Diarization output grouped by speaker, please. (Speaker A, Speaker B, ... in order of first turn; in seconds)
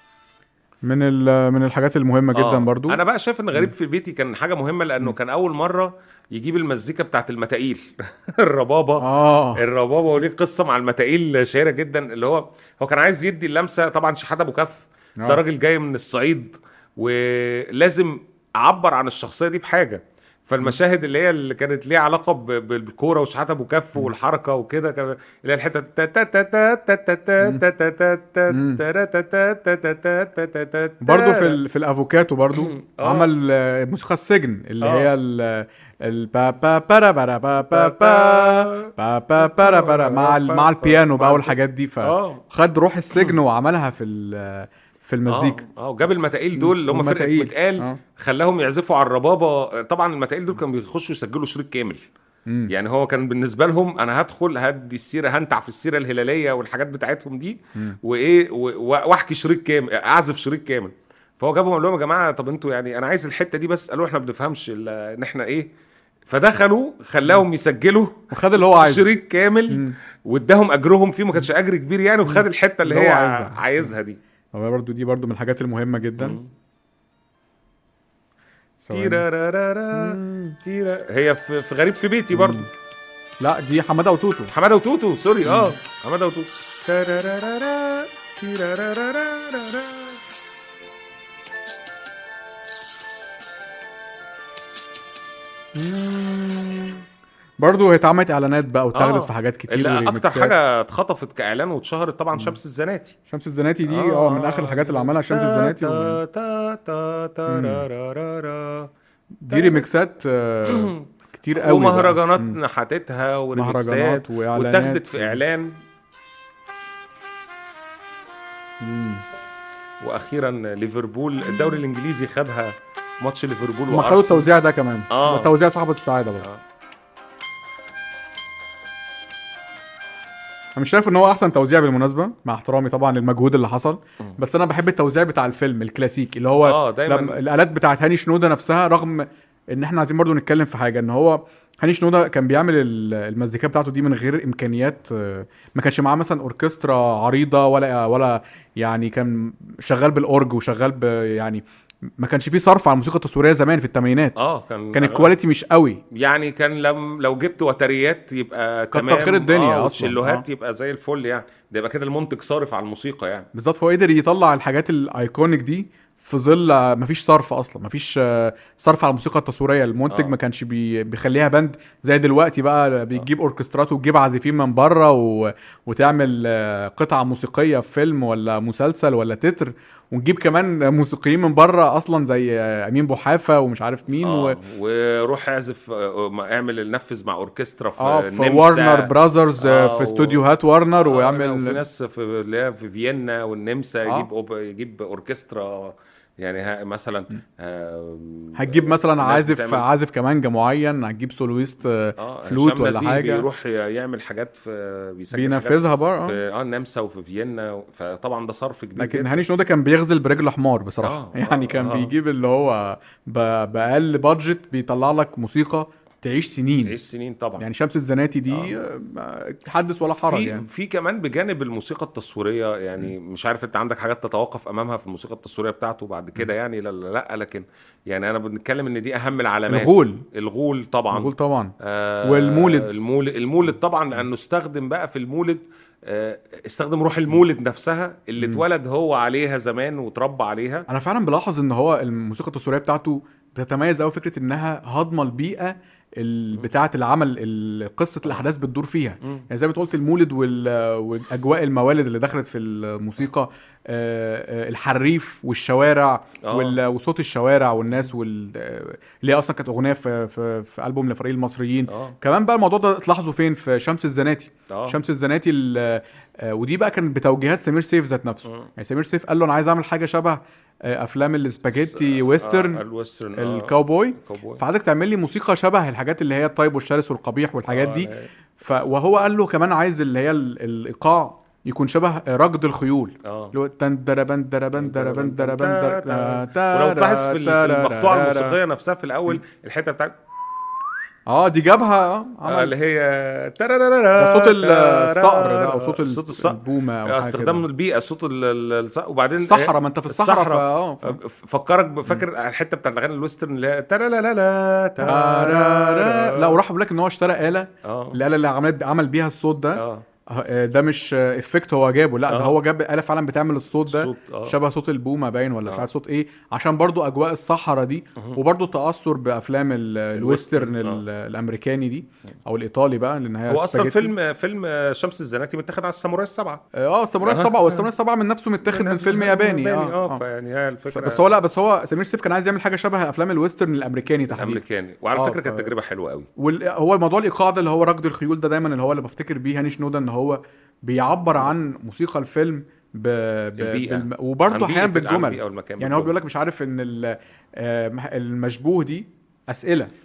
Speaker A: 0.8-3.0, 9.0-9.6, 28.5-28.8, 31.0-45.6, 46.5-48.0, 68.3-69.1, 69.7-70.0, 72.2-73.9, 74.5-76.4, 78.8-79.2, 79.9-80.6, 82.3-82.7, 83.4-84.5, 85.4-85.7, 95.7-97.0, 97.6-100.5, 103.3-106.2, 107.5-107.8, 109.4-112.6, 113.5-115.4, 118.8-119.2, 123.9-126.5, 130.8-151.6, 152.2-154.4, 154.9-156.0, 158.9-160.4, 163.5-184.6, 188.0-191.8, 198.6-203.5, 205.3-206.4, 209.0-217.0, 217.6-220.7, 229.7-230.2, 231.1-232.9, 238.4-238.6, 240.9-272.8, 273.4-288.6, 291.3-292.7, 294.1-297.6, 299.4-301.2, 305.0-324.1, 326.8-330.2, 330.9-334.6, 335.1-335.7, 336.4-349.9
Speaker B: 2.3-31.6, 32.5-33.3, 34.8-35.1, 37.7-42.4, 45.3-52.0, 52.7-65.7, 66.3-74.2, 76.2-76.5, 78.9-82.7, 84.5-90.2, 98.9-103.1, 103.8-108.9, 109.5-109.8, 110.7-111.0, 111.5-115.7, 120.0-124.5, 125.1-125.5, 136.6-137.4, 154.3-155.3, 156.1-163.5, 170.1-170.3, 184.2-190.4, 191.0-199.8, 202.2-209.4, 211.0-212.1, 216.8-217.6, 218.5-218.8, 220.2-240.8, 256.4-256.8, 261.9-262.1, 264.7-265.0, 271.7-274.6, 277.7-278.3, 283.2-283.5, 284.8-290.1, 292.5-306.6, 307.8-308.2, 309.8-310.0, 312.3-312.5, 313.9-314.6, 320.1-321.0, 323.5-326.6, 327.2-327.9, 328.6-331.3, 334.3-336.3, 343.6-346.1